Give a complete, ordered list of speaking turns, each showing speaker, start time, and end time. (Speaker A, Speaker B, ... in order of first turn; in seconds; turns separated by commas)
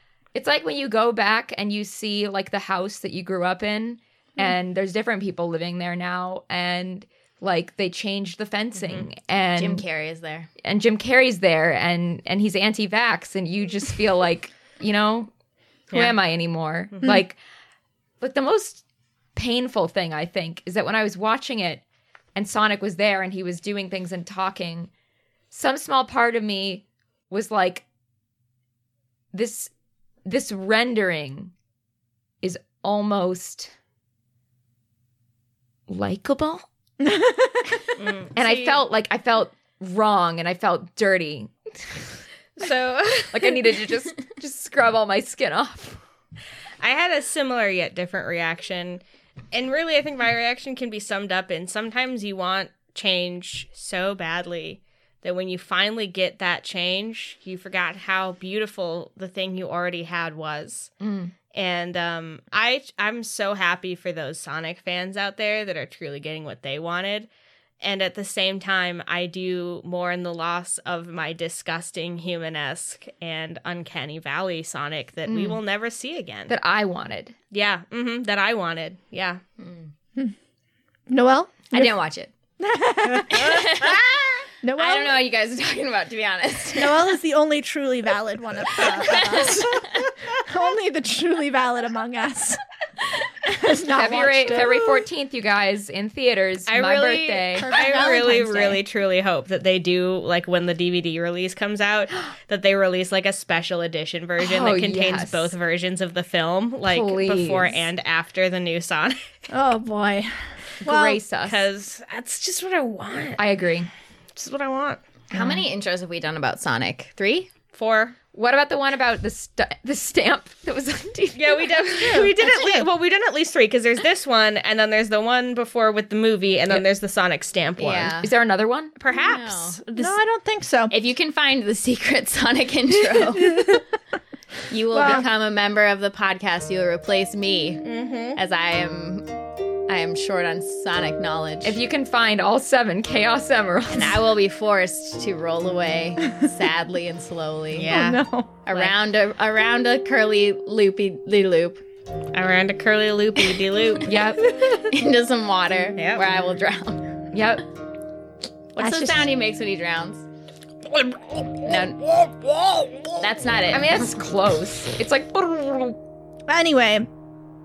Speaker A: 0.3-9.8, Speaker B: 8.8-9.1, Speaker C: 9.6-10.5, Speaker A: 10.6-15.3, Speaker A: 15.9-17.4, Speaker A: 18.2-18.8, Speaker A: 19.4-21.8, Speaker A: 22.4-24.9, Speaker A: 25.5-27.8, Speaker A: 29.3-29.7, Speaker A: 30.2-31.5, Speaker A: 32.4-33.7, Speaker A: 35.9-36.6, Speaker D: 37.0-38.0, Speaker B: 38.0-38.8, Speaker A: 38.4-41.5, Speaker B: 42.6-43.8, Speaker A: 43.3-46.0, Speaker B: 46.8-60.9, Speaker A: 61.0-61.3, Speaker B: 61.5-67.3, Speaker B: 67.8-76.5, Speaker A: 76.5-77.4, Speaker B: 77.5-79.4, Speaker C: 79.6-79.9, Speaker D: 81.1-82.0, Speaker C: 81.7-82.3, Speaker D: 82.6-83.7, Speaker C: 83.3-87.2, Speaker D: 84.6-85.2, Speaker D: 86.8-92.6, Speaker C: 88.8-89.6, Speaker D: 93.4-95.0, Speaker A: 93.8-98.8, Speaker B: 96.7-109.3, Speaker D: 97.6-98.7, Speaker A: 104.4-105.5, Speaker A: 106.9-107.8, Speaker D: 109.5-111.2, Speaker A: 110.8-111.7, Speaker B: 111.5-113.4, Speaker A: 113.4-113.9, Speaker B: 114.3-115.0, Speaker A: 115.3-115.7, Speaker C: 115.3-117.5, Speaker B: 117.7-118.2, Speaker A: 118.3-122.5, Speaker B: 121.3-128.2, Speaker D: 122.0-122.9, Speaker C: 127.8-128.3, Speaker A: 128.2-128.9, Speaker B: 129.0-130.0, Speaker C: 129.1-129.8, Speaker D: 129.9-130.9, Speaker C: 130.9-133.8, Speaker D: 133.4-133.8, Speaker C: 134.7-139.3, Speaker D: 134.9-135.3, Speaker B: 137.8-138.4, Speaker C: 139.9-141.8, Speaker A: 141.6-144.3, Speaker C: 143.9-148.0, Speaker B: 147.7-148.2, Speaker D: 147.9-148.5, Speaker C: 148.7-151.8, Speaker B: 152.3-154.2, Speaker A: 154.1-154.6, Speaker C: 154.7-157.0, Speaker B: 156.0-156.2, Speaker A: 157.3-157.7, Speaker D: 158.8-159.3, Speaker C: 158.8-160.2, Speaker C: 161.6-162.0, Speaker B: 162.2-163.2, Speaker C: 163.2-164.2, Speaker A: 163.7-166.0, Speaker D: 166.5-167.1